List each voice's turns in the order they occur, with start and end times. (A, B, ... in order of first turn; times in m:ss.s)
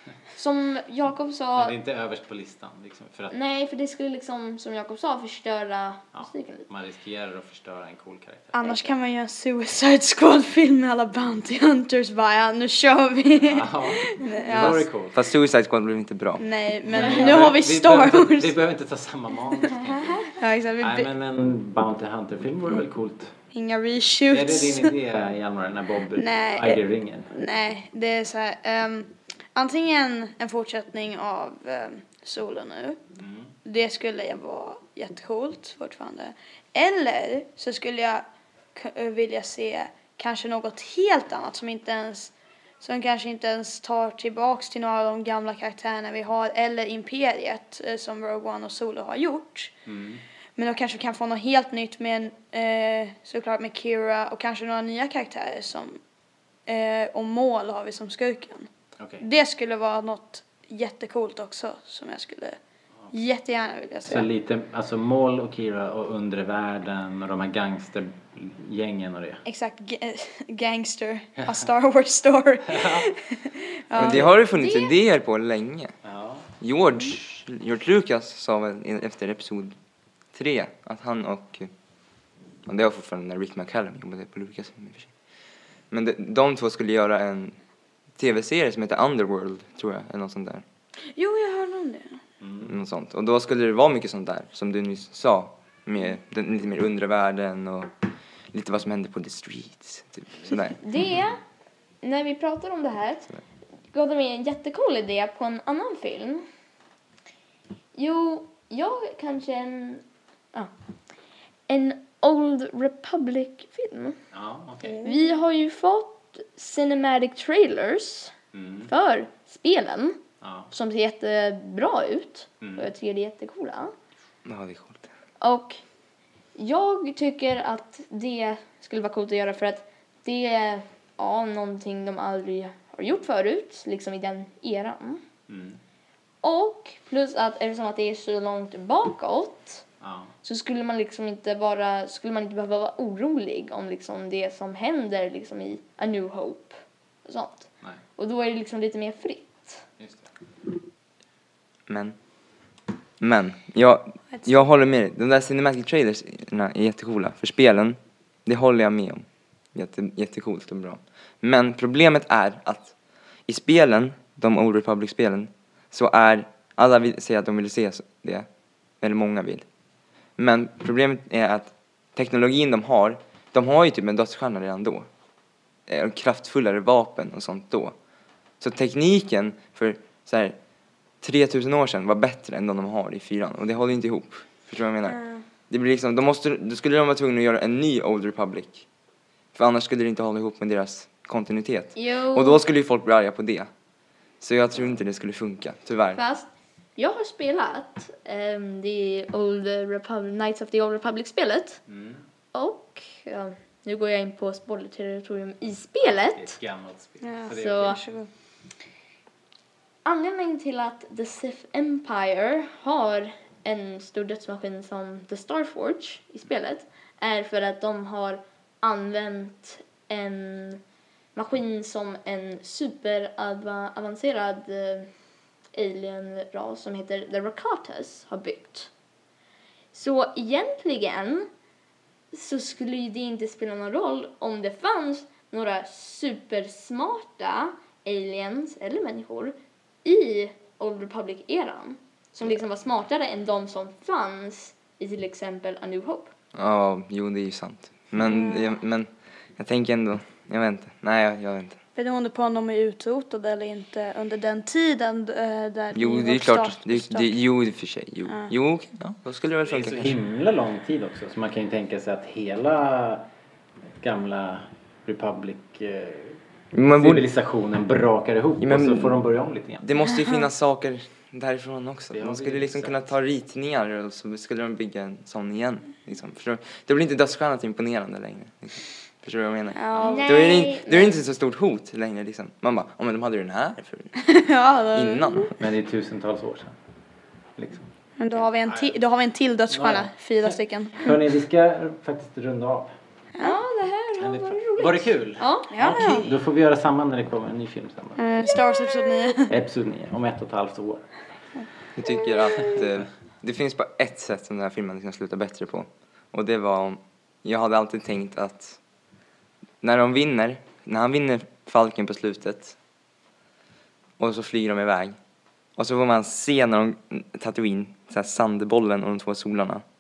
0:00.3-0:01.7 A
0:01.5-0:03.4 B
0:03.3-0:06.7 A
0:06.1-0:08.8 B
0:08.5-0:14.8 C
0:13.4-0:15.2 B
0:14.5-0:16.5 D
0:16.4-0:18.6 C
0:16.8-0:23.3 B
0:17.0-0:17.4 A
0:20.3-0:21.1 C
0:23.5-0:24.9 C
0:24.3-0:27.3 B
0:26.2-0:26.8 C
0:27.3-0:33.0 C
0:33.2-0:33.5 B
0:33.6-0:49.7 C
0:49.8-0:50.2 B
0:50.6-0:56.0 C
0:56.7-0:58.7 C
0:59.0-0:59.2 B
0:59.2-1:02.6 C
1:03.1-1:04.3 C
1:04.0-1:09.4 B
1:09.4-1:14.3 C
1:12.7-1:13.1 B
1:13.9-1:15.9 D
1:14.5-1:15.0 A
1:16.0-1:16.5 B
1:16.6-1:19.7 D
1:20.3-1:21.7 D
1:22.6-1:25.1 D
1:25.9-1:27.6 D
1:28.2-1:30.6 D
1:31.1-1:32.2 C
1:32.4-1:32.8 B
1:32.6-1:37.9 D
1:38.5-1:40.8 D
1:40.8-1:41.4 A
1:42.0-1:43.3 A
1:43.9-1:46.4 A
1:47.9-1:50.7 A
1:51.7-1:54.2 A
1:54.3-1:55.0 B
1:55.0-1:58.3 A
1:58.5-1:58.9 B
1:58.9-2:00.2 A
2:00.4-2:00.7 B
2:00.7-2:03.9 A
2:02.6-2:02.9 B
2:04.4-2:05.1 D
2:05.4-2:05.8 A
2:06.6-2:15.2 A
2:15.5-2:15.8 B
2:16.4-2:19.8 A
2:20.0-2:20.3 B
2:20.4-2:29.8 A
2:30.0-2:30.2 B
2:31.9-2:32.1 D
2:33.2-2:42.9 D
2:43.5-2:48.5 D
2:49.0-2:49.6 D
2:50.4-2:55.1 D
2:55.9-2:57.9 D
2:58.6-3:00.6 D
3:01.2-3:08.8 D
3:05.0-3:05.4 C
3:09.5-3:13.7 D
3:12.0-3:12.6 A
3:14.4-3:16.2 D
3:16.1-3:21.8 A
3:21.9-3:22.2 B
3:22.5-3:26.6 A
3:26.4-3:28.0 B
3:27.2-3:28.3 C
3:27.5-3:28.0 A
3:30.0-3:40.8 A
3:41.4-3:45.1 A
3:45.7-3:48.9 A
3:49.9-3:51.5 A
3:52.3-4:06.3 A
4:06.5-4:11.8 D
4:08.3-4:08.6 C
4:12.0-4:17.3 C
4:15.9-4:20.2 D
4:19.6-4:23.3 B
4:24.0-4:29.9 B
4:26.7-4:27.2 D
4:28.6-4:29.2 D
4:29.8-4:44.1 D
4:32.1-4:33.1 B
4:39.7-4:40.3 C
4:40.0-4:41.2 A
4:44.2-4:45.5 C
4:44.9-4:45.5 D
4:45.6-4:46.8 B
4:47.6-4:47.9 B
4:48.2-4:51.2 C
4:48.6-4:49.0 B
4:49.7-4:52.9 B
4:53.4-4:56.2 A
4:54.2-4:58.2 B
4:55.7-4:56.2 C
4:58.2-4:59.5 C
4:58.4-4:59.2 A
4:59.5-5:01.1 B
5:02.0-5:08.8 D
5:09.8-5:12.8 D
5:14.2-5:15.2 D
5:15.8-5:19.8 D